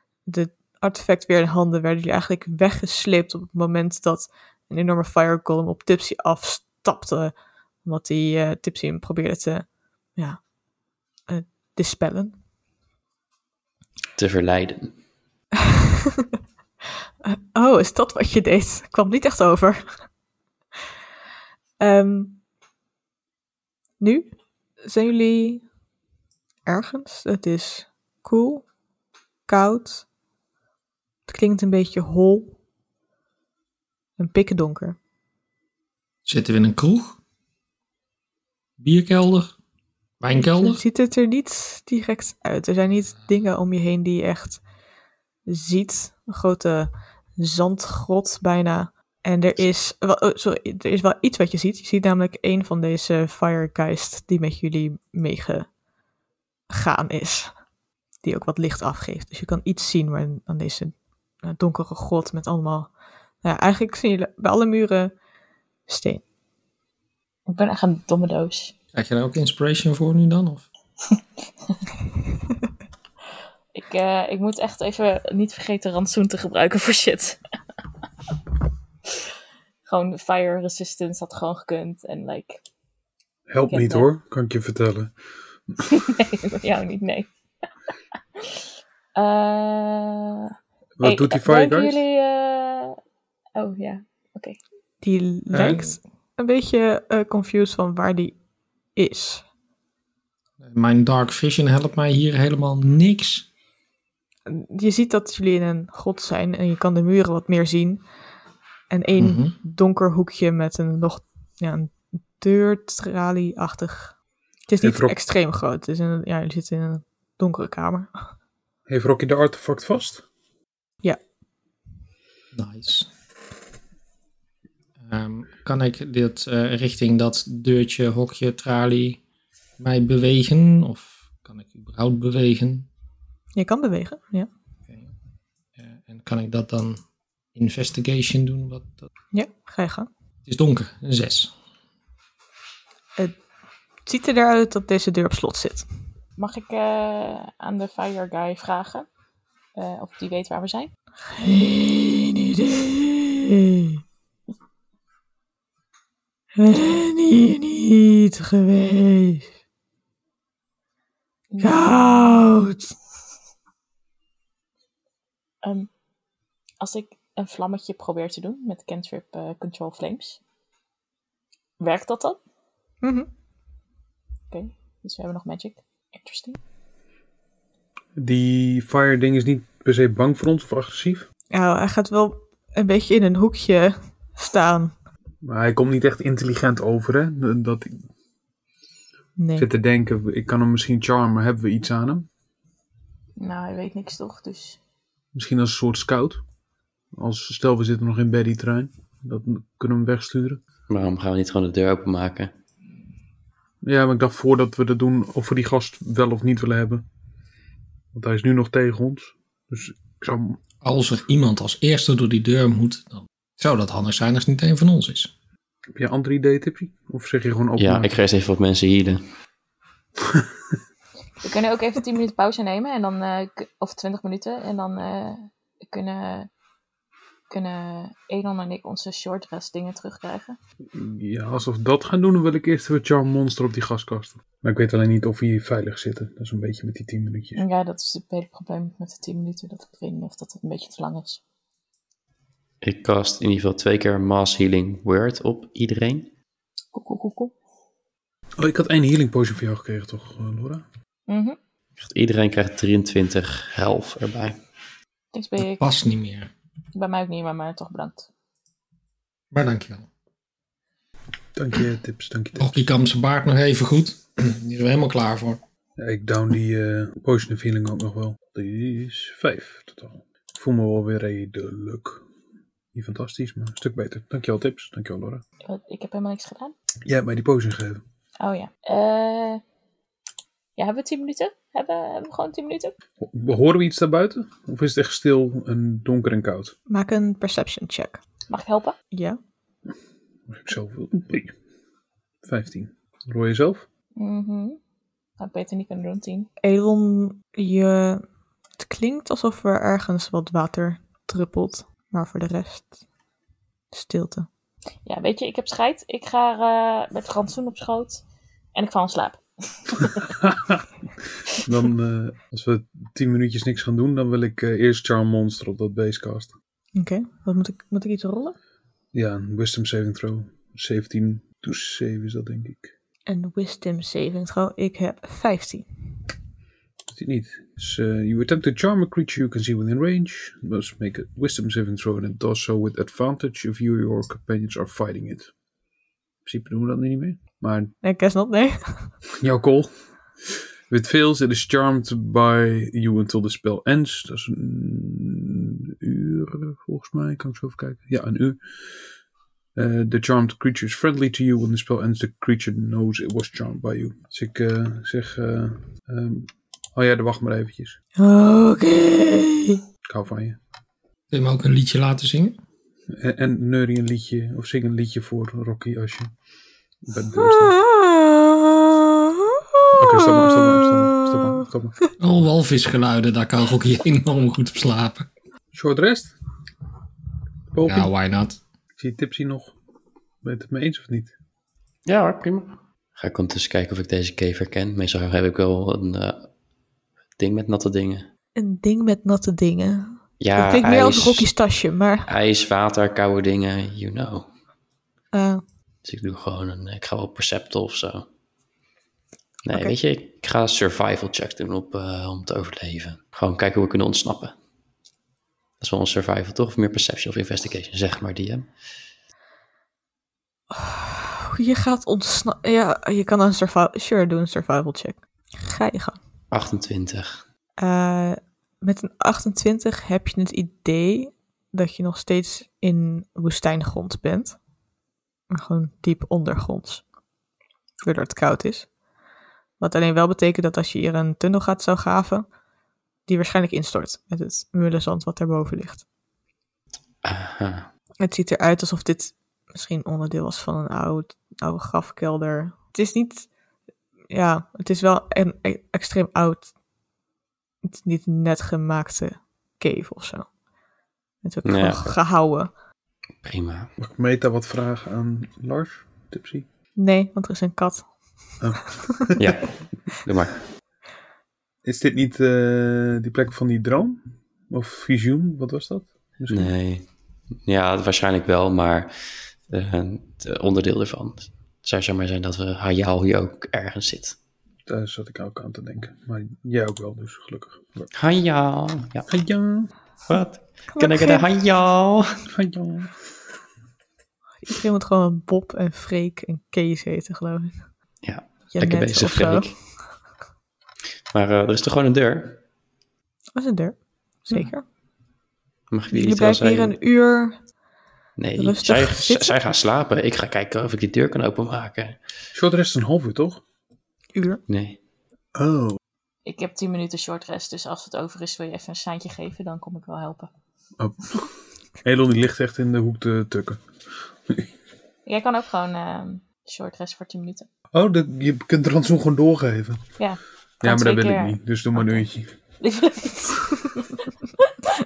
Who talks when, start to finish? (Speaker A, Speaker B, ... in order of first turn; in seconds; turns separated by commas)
Speaker A: 0.3-10.5, Speaker A: 11.3-12.4, Speaker B: 14.2-14.9, Speaker A: 17.2-20.1, Speaker A: 21.8-22.4, Speaker A: 24.0-25.6, Speaker A: 26.7-28.7, Speaker A: 29.5-30.1, Speaker A: 31.3-32.6, Speaker A: 34.2-35.0, Speaker C: 36.2-37.2, Speaker C: 38.8-39.6, Speaker C: 40.2-40.8, Speaker A: 40.4-44.6, Speaker A: 45.5-55.7, Speaker A: 56.7-57.5, Speaker A: 58.2-62.9, Speaker A: 63.4-65.2, Speaker A: 65.9-66.2, Speaker D: 67.5-68.7, Speaker C: 69.0-70.6, Speaker D: 73.8-77.4, Speaker D: 79.9-82.6, Speaker E: 83.5-85.1, Speaker D: 83.7-84.1, Speaker D: 85.8-87.3, Speaker D: 89.2-93.0, Speaker E: 91.0-92.0, Speaker D: 93.5-94.6, Speaker A: 95.0-98.4, Speaker C: 95.5-96.0, Speaker A: 99.0-99.5, Speaker C: 100.6-103.5, Speaker A: 104.5-108.0, Speaker A: 108.9-114.2, Speaker C: 109.2-109.5, Speaker A: 114.7-118.1, Speaker E: 114.8-115.2, Speaker E: 118.9-120.2, Speaker C: 122.5-123.1, Speaker C: 125.0-129.2, Speaker C: 129.8-132.9, Speaker A: 133.6-134.5, Speaker C: 135.8-137.0, Speaker C: 137.5-139.0, Speaker A: 139.3-140.1, Speaker C: 140.5-141.5, Speaker A: 144.1-145.9, Speaker D: 146.4-149.1, Speaker D: 149.8-150.9, Speaker A: 151.3-153.9, Speaker A: 156.6-159.5, Speaker D: 161.5-162.3, Speaker A: 161.6-162.9, Speaker D: 165.6-165.9, Speaker D: 166.8-170.4, Speaker D: 171.8-172.4, Speaker A: 173.0-173.3, Speaker D: 174.5-176.6, Speaker E: 178.2-181.3, Speaker A: 181.5-184.9, Speaker E: 185.4-188.0, Speaker A: 189.4-189.7, Speaker E: 189.6-192.2, Speaker D: 193.4-194.8, Speaker E: 195.3-196.4, Speaker E: 197.1-200.6, Speaker B: 200.9-202.5, Speaker E: 203.8-207.1, Speaker E: 208.1-210.6, Speaker C: 210.8-215.3, Speaker E: 215.9-218.2, Speaker B: 217.8-219.2, Speaker D: 221.4-226.5, Speaker D: 227.5-230.6, Speaker E: 230.9-237.6, Speaker D: 237.6-241.4, Speaker B: 242.8-246.3, Speaker D: 246.9-247.5, Speaker E: 248.6-250.8, Speaker D: 251.3-251.6, Speaker B: 252.0-254.6, Speaker D: 255.3-255.8, Speaker C: 255.6-256.5, Speaker D: 256.9-258.3, Speaker C: 259.5-260.1, Speaker E: 261.6-262.9, Speaker C: 262.6-265.6, Speaker E: 266.0-272.2, Speaker E: 272.9-275.4, Speaker D: 275.6-276.8, Speaker E: 277.1-278.0, Speaker D: 278.4-279.6, Speaker D: 280.8-282.9, Speaker E: 283.2-286.8, Speaker A: 286.9-288.2, Speaker D: 288.5-288.9, Speaker A: 289.1-289.4, Speaker E: 290.5-291.5, Speaker E: 292.4-293.9, Speaker D: 294.2-294.8, Speaker D: 295.4-296.5, Speaker A: 296.6-298.2, Speaker A: 298.8-302.9, Speaker A: 303.9-304.5, Speaker D: 305.1-308.2, Speaker D: 308.8-310.4, Speaker E: 310.4-310.8, Speaker E: 311.6-316.5, Speaker A: 317.0-318.6, Speaker E: 319.1-322.9, Speaker A: 323.3-325.9, Speaker E: 327.1-335.5, Speaker E: 336.4-337.9, Speaker A: 338.0-339.1, Speaker E: 339.4-339.9, Speaker E: 340.5-348.6, Speaker E: 349.8-358.0, Speaker A: 358.2-359.8, Speaker E: 360.1-360.6, Speaker C: 361.3-362.6, Speaker E: 363.1-366.3, Speaker E: 367.0-367.8, Speaker A: 367.4-371.5, Speaker E: 369.9-372.0, Speaker C: 372.2-375.3, Speaker E: 375.7-376.3, Speaker E: 377.7-378.1, Speaker C: 377.8-378.6, Speaker E: 379.0-379.8, Speaker E: 380.4-381.3, Speaker B: 382.1-386.5, Speaker B: 387.4-388.3, Speaker A: 388.6-392.3, Speaker B: 390.4-391.5, Speaker B: 392.3-394.5, Speaker A: 395.3-395.6, Speaker B: 396.0-398.3, Speaker B: 399.6-404.5, Speaker B: 405.8-408.7, Speaker A: 410.7-416.2, Speaker B: 416.5-417.4, Speaker A: 417.8-424.6, Speaker A: 425.5-427.1, Speaker A: 428.1-428.9, Speaker A: 429.8-432.5, Speaker A: 433.3-436.1, Speaker B: 437.2-437.9, Speaker A: 438.2-443.5, Speaker A: 444.3-446.7, Speaker A: 447.8-450.5, Speaker A: 451.4-452.7, Speaker B: 451.6-452.0, Speaker B: 453.4-453.9, Speaker E: 454.0-456.7, Speaker A: 457.0-458.1, Speaker E: 458.6-459.6, Speaker B: 459.4-460.6, Speaker E: 461.8-466.7, Speaker B: 466.5-467.1, Speaker B: 467.6-469.1, Speaker B: 469.7-474.4, Speaker E: 474.9-478.1, Speaker B: 478.1-479.3, Speaker E: 479.3-479.9, Speaker B: 480.3-482.5, Speaker A: 480.9-481.5, Speaker E: 482.5-483.2, Speaker A: 484.6-487.8, Speaker B: 488.2-489.8, Speaker A: 488.7-489.7, Speaker B: 491.3-492.6, Speaker A: 493.6-494.9, Speaker B: 495.9-497.0, Speaker A: 496.1-497.6, Speaker B: 498.4-502.2, Speaker A: 498.6-499.6, Speaker E: 502.5-503.6, Speaker A: 504.4-504.6, Speaker B: 504.7-505.0, Speaker E: 505.6-506.0, Speaker D: 506.4-510.5, Speaker E: 511.0-511.5, Speaker E: 512.0-513.8, Speaker D: 515.3-517.7, Speaker E: 517.9-520.0, Speaker D: 520.2-522.3, Speaker E: 520.8-522.5, Speaker D: 522.8-524.2